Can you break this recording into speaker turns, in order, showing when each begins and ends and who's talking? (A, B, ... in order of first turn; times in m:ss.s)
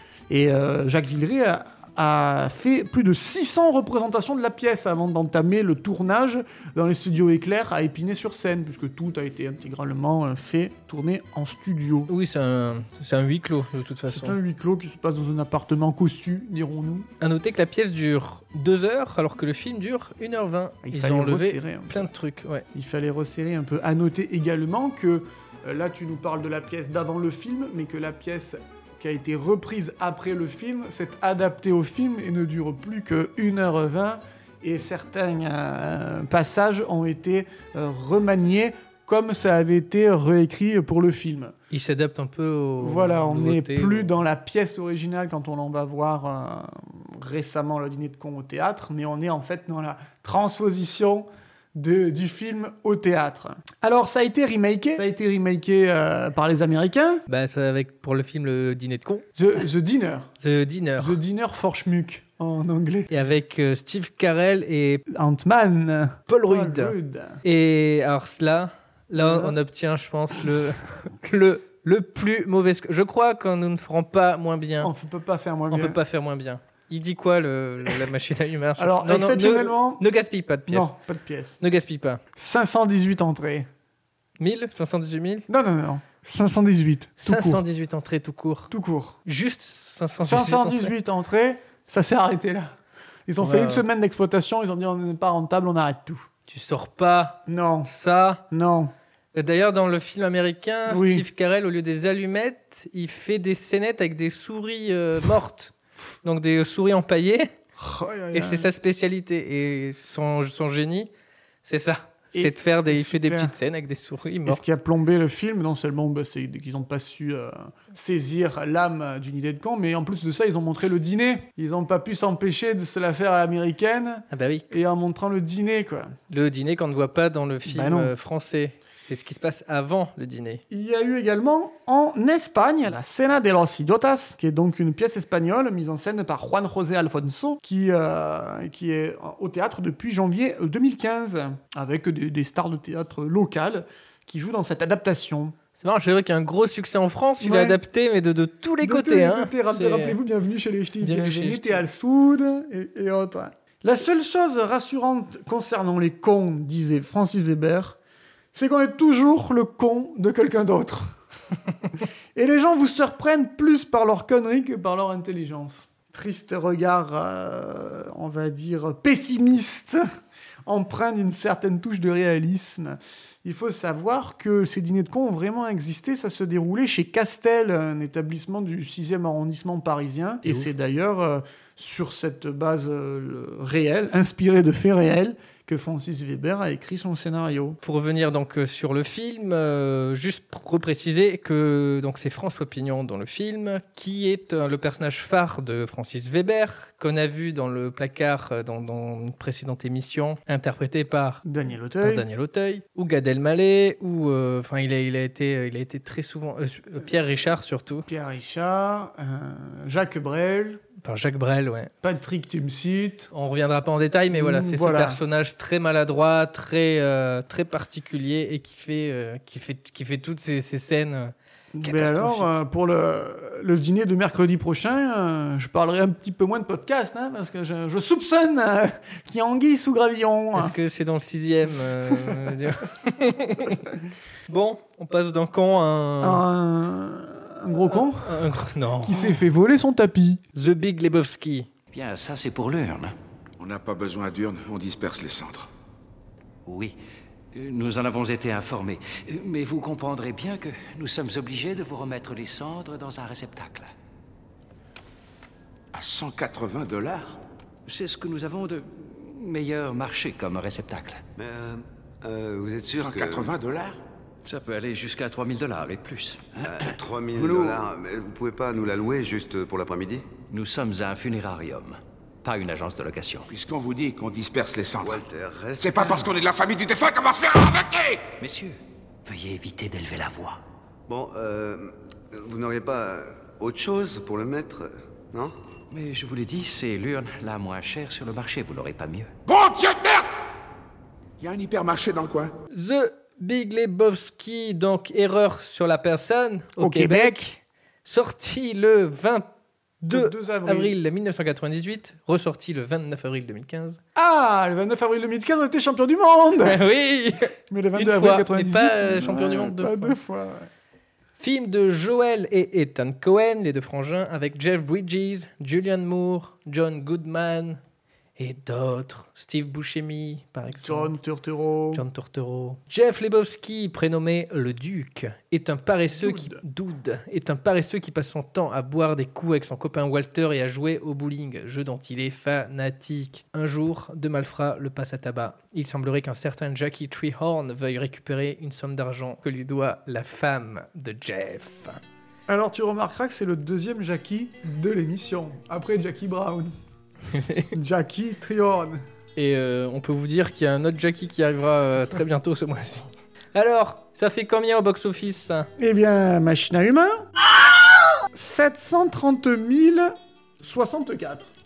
0:00.3-0:12.1 A
0:12.1-0:14.4 B
0:14.1-0:17.1 A
0:17.2-0:22.6 B
0:20.8-0:22.1 A
0:22.7-0:41.5 A
0:41.7-0:44.1 B
0:42.8-0:57.2 A
0:57.3-0:59.3 B
0:59.4-1:00.3 A
1:00.4-1:01.2 B
1:01.0-1:03.1 A
1:03.1-1:05.0 B
1:05.1-1:07.4 A
1:06.3-1:14.9 B
1:09.2-1:09.6 A
1:14.8-1:16.0 A
1:15.7-1:20.9 B
1:18.8-1:20.0 A
1:20.7-1:21.6 A
1:21.6-1:22.2 B
1:22.4-1:23.7 A
1:24.4-1:25.5 B
1:25.5-1:27.6 A
1:27.2-1:28.7 B
1:28.7-1:29.2 A
1:29.3-1:30.9 B
1:30.2-1:32.8 A
1:33.3-1:36.3 A
1:33.4-1:33.8 B
1:36.5-1:38.4 B
1:37.5-1:37.9 A
1:38.5-1:38.9 A
1:39.3-1:45.7 B
1:40.9-1:41.2 A
1:46.2-1:47.5 B
1:47.8-1:48.7 A
1:48.3-1:51.1 B
1:51.6-1:54.6 B
1:52.3-1:53.6 A
1:54.5-2:06.2 A
2:04.3-2:04.7 B
2:06.3-2:10.6 B
2:07.7-2:08.1 A
2:10.7-2:25.6 A
2:25.8-2:30.2 B
2:27.4-2:27.8 A
2:28.8-2:38.0 A
2:31.0-2:31.8 B
2:38.5-2:41.1 A
2:42.4-2:50.0 A
2:50.7-3:07.8 A
3:07.8-3:21.4 B
3:21.4-3:22.2 A
3:22.0-3:28.1 B
3:28.1-3:30.8 A
3:31.0-3:31.9 B
3:32.0-3:33.3 A
3:33.3-3:42.5 B
3:34.3-3:35.2 A
3:41.8-3:50.8 A
3:50.6-3:54.0 B
3:52.1-3:52.5 A
3:54.5-3:56.4 B
3:56.2-3:58.5 A
3:57.8-3:59.4 B
3:59.0-4:00.4 A
4:00.6-4:01.7 B
4:01.9-4:03.1 C
4:03.6-4:05.7 D
4:06.7-4:07.0 C
4:07.5-4:13.9 C
4:15.9-4:17.4 D
4:17.9-4:21.2 C
4:21.4-4:23.5 E
4:23.0-4:24.0 D
4:24.4-4:26.4 C
4:26.6-4:30.2 E
4:30.5-4:33.5 C
4:33.5-4:35.2 D
4:35.0-4:36.2 E
4:35.8-4:38.2 D
4:38.4-4:40.6 C
4:41.1-4:45.5 E
4:45.9-4:49.3 C
4:49.5-4:50.3 D
4:51.4-4:52.5 D
4:52.7-4:57.5 B
4:56.8-4:57.6 A
4:58.0-4:59.5 B
5:00.0-5:04.0 B
5:00.1-5:01.0 A
5:04.2-5:06.8 A
5:06.6-5:10.2 B
5:07.7-5:10.7 A
5:11.4-5:17.8 B
5:18.4-5:21.1 B
5:20.8-5:22.0 A
5:21.9-5:42.0 B
5:26.1-5:26.6 A
5:42.5-5:46.7 A
5:47.3-5:47.7 B
5:47.7-5:49.0 A
5:49.4-5:55.7 B
5:55.8-5:57.2 A
5:58.3-6:01.5 A